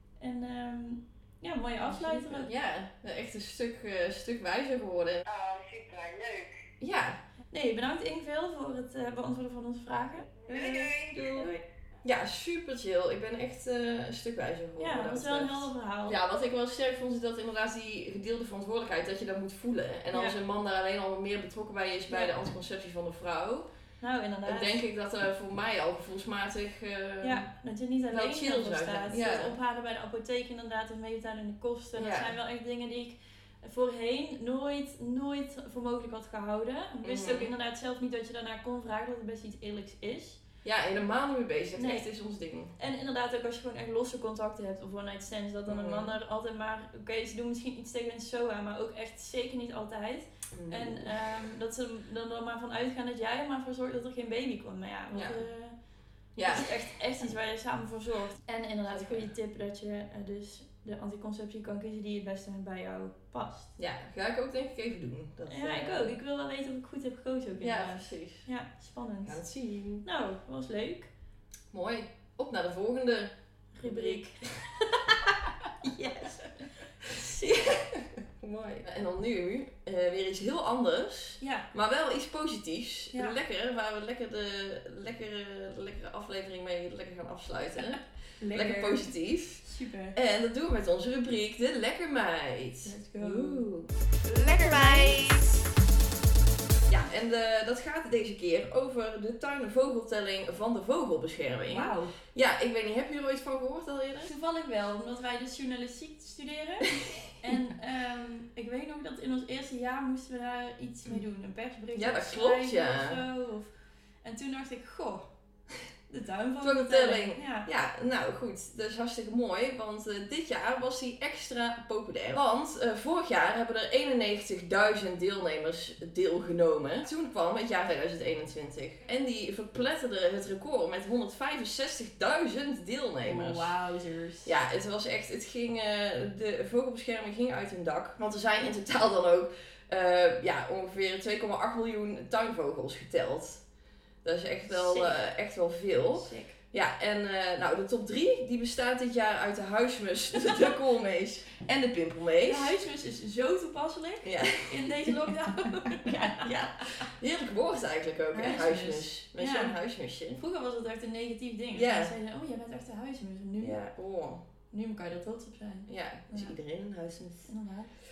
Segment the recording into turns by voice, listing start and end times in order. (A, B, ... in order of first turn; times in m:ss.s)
0:00.2-0:02.5 A
0:01.8-0:05.2 B
0:05.3-0:06.7 C
0:06.8-0:07.2 B
0:07.5-0:11.6 A
0:10.5-0:11.1 C
0:11.2-0:11.5 B
0:12.0-0:23.7 B
0:14.8-0:16.2 A
0:22.1-0:22.3 A
0:24.0-0:24.8 A
0:24.4-0:27.5 B
0:27.2-0:40.4 A
0:28.1-0:29.6 B
0:32.0-0:32.3 B
0:37.0-0:37.5 B
0:40.6-0:42.8 B
0:41.8-0:42.1 A
0:42.8-0:55.8 A
0:45.7-0:46.2 B
0:50.5-0:51.4 B
0:55.1-0:55.4 B
0:56.4-0:56.8 B
0:56.4-1:03.7 A
0:58.9-0:59.3 B
1:03.8-1:06.1 B
1:05.5-1:09.4 A
1:07.6-1:08.5 B
1:09.3-1:10.0 B
1:10.0-1:11.1 A
1:11.7-1:13.3 B
1:13.8-1:14.5 A
1:13.8-1:15.3 B
1:15.8-1:17.7 A
1:17.2-1:35.6 B
1:21.4-1:21.7 A
1:28.4-1:29.1 A
1:29.6-1:30.2 A
1:32.8-1:33.7 A
1:34.3-1:35.2 A
1:36.9-1:44.3 B
1:41.7-1:42.2 A
1:44.2-1:53.7 A
1:52.0-1:53.2 B
1:54.2-1:55.2 A
1:56.1-1:57.7 A
1:56.6-2:13.7 B
2:13.2-2:14.5 A
2:14.4-2:23.6 B
2:24.2-2:32.7 B
2:24.7-2:25.2 A
2:26.2-2:26.6 A
2:32.4-2:36.7 A
2:34.2-2:35.1 B
2:36.1-2:40.4 B
2:38.3-2:39.7 A
2:40.4-2:43.8 A
2:41.8-2:42.1 B
2:43.6-2:44.4 B
2:44.7-2:46.5 A
2:45.9-2:47.5 B
2:47.5-2:47.9 A